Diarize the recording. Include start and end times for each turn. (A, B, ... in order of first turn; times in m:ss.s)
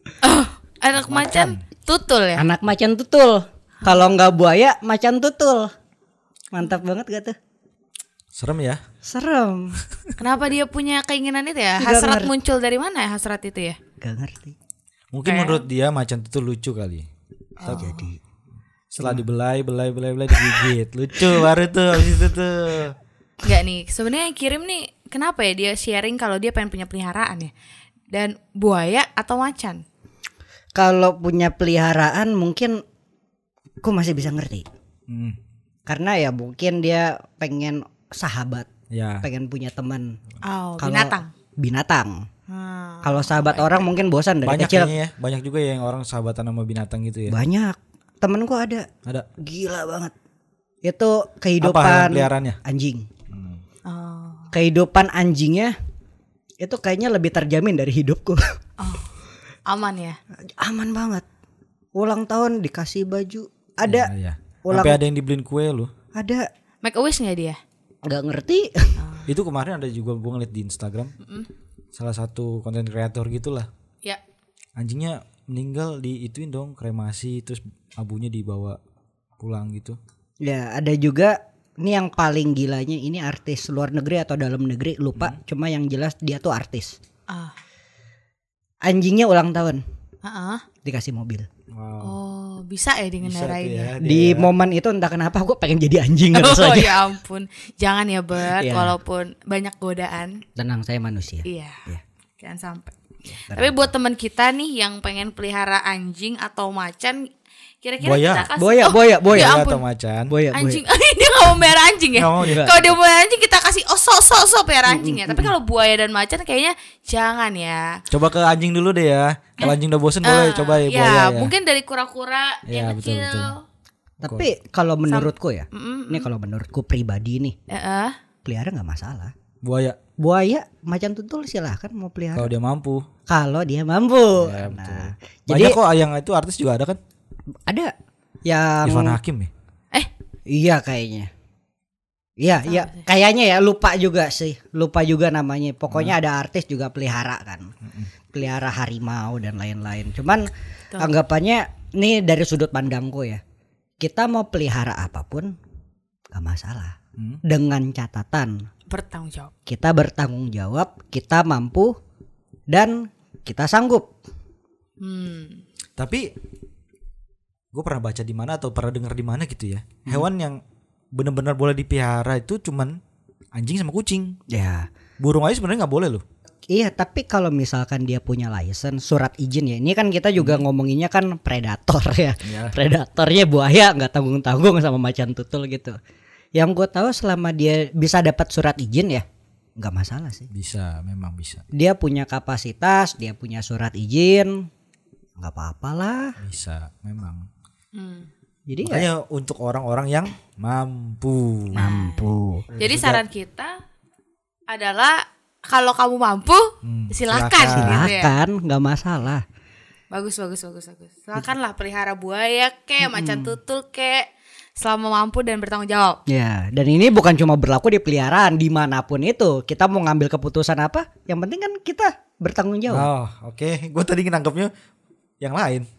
0:00.2-0:02.4 A
0:00.9-0:01.6 B
0:02.4-0:05.7 C
0:06.5-0:07.3 C
0:08.3-0:08.8 B
0:09.0-0:09.8 C
0:10.2-0:13.8 A
0:11.8-0:12.3 C
0:14.0-0:14.5 C
0:15.1-0:17.1 B
0:15.2-0:15.7 A
0:17.6-0:17.9 B
0:17.6-0:18.1 A
0:17.6-0:18.2 C
0:18.9-0:19.2 C
0:18.9-0:23.0 B
0:20.3-0:20.7 C
0:23.4-0:27.5 A
0:28.1-0:29.8 A
0:30.7-0:32.8 C
0:33.8-0:34.6 C
0:35.1-0:35.4 B
0:35.9-0:38.7 C
0:38.9-0:39.2 B
0:39.2-0:40.2 C
0:40.4-0:41.3 A
0:40.8-0:42.2 C
0:42.5-0:44.0 A
0:43.0-0:44.9 C
0:44.4-0:47.4 B
0:47.3-0:48.9 C
0:49.4-0:50.1 C
0:50.8-0:53.1 C
0:51.6-0:52.6 B
0:53.3-0:53.6 B
0:53.8-0:54.5 A
0:54.5-0:55.7 C
0:56.6-0:58.5 C
0:58.8-0:59.1 A
0:59.7-1:00.2 A
1:00.4-1:01.2 C
1:01.9-1:04.1 C
1:03.8-1:05.9 B
1:04.6-1:05.0 C
1:06.1-1:06.4 C
1:06.8-1:07.6 A
1:08.0-1:09.0 C
1:09.0-1:09.3 A
1:09.3-1:11.1 B
1:11.2-1:11.5 A
1:11.9-1:13.7 B
1:14.8-1:18.8 B
1:19.4-1:20.0 B
1:20.4-1:27.0 C
1:27.3-1:27.5 A
1:28.8-1:29.8 C
1:30.2-1:30.6 A
1:30.8-1:31.5 C
1:31.7-1:32.1 B
1:32.0-1:33.9 A
1:33.2-1:34.5 B
1:34.0-1:37.1 C
1:36.3-1:40.4 A
1:38.4-1:39.0 C
1:40.6-1:42.0 C
1:41.4-1:41.8 A
1:42.4-1:42.9 A
1:43.3-1:43.9 C
1:43.5-1:47.2 A
1:47.8-1:49.8 A
1:48.0-1:48.5 B
1:48.6-1:49.6 C
1:49.3-1:50.4 B
1:50.3-1:50.8 C
1:50.5-1:58.0 A
1:52.1-1:53.0 B
1:52.4-1:52.8 C
1:54.8-1:55.5 C
1:58.1-2:01.5 B
1:59.6-2:03.6 A
2:02.6-2:03.5 B
2:04.2-2:07.5 C
2:04.2-2:04.5 B
2:05.1-2:06.3 A
2:07.7-2:08.1 A
2:08.4-2:09.3 C
2:09.6-2:10.0 B
2:10.2-2:12.5 C
2:12.3-2:13.1 B
2:13.3-2:15.8 C
2:14.4-2:17.0 B
2:17.7-2:17.9 C
2:18.4-2:19.2 C
2:18.8-2:19.5 B
2:20.5-2:21.3 C
2:22.4-2:27.7 C
2:22.6-2:23.1 A
2:25.9-2:26.2 B
2:27.8-2:28.1 B
2:28.3-2:33.4 C
2:34.0-2:35.6 C
2:36.3-2:38.6 C
2:38.9-2:39.5 A
2:39.7-2:41.9 C
2:42.7-2:44.1 C
2:45.0-2:45.6 A
2:46.0-2:46.3 B
2:47.7-2:50.6 B
2:51.1-2:53.0 B
2:53.5-2:54.4 B
2:54.5-2:54.9 C
2:55.2-2:56.2 B
2:56.7-3:05.9 C
3:00.4-3:00.6 B
3:02.4-3:02.8 B
3:06.5-3:09.2 C
3:09.8-3:10.5 C
3:10.5-3:11.6 B
3:11.7-3:14.7 C
3:15.4-3:16.3 C
3:16.4-3:17.5 B
3:17.9-3:18.3 A
3:18.7-3:19.1 C
3:18.8-3:21.9 B
3:21.7-3:23.7 A
3:21.8-3:22.7 C
3:22.7-3:23.2 B
3:24.7-3:28.4 A
3:26.8-3:28.1 B
3:27.6-3:29.4 C
3:30.1-3:36.2 A
3:33.0-3:33.6 C
3:36.3-3:43.1 C
3:42.9-3:44.7 B
3:45.4-3:45.9 B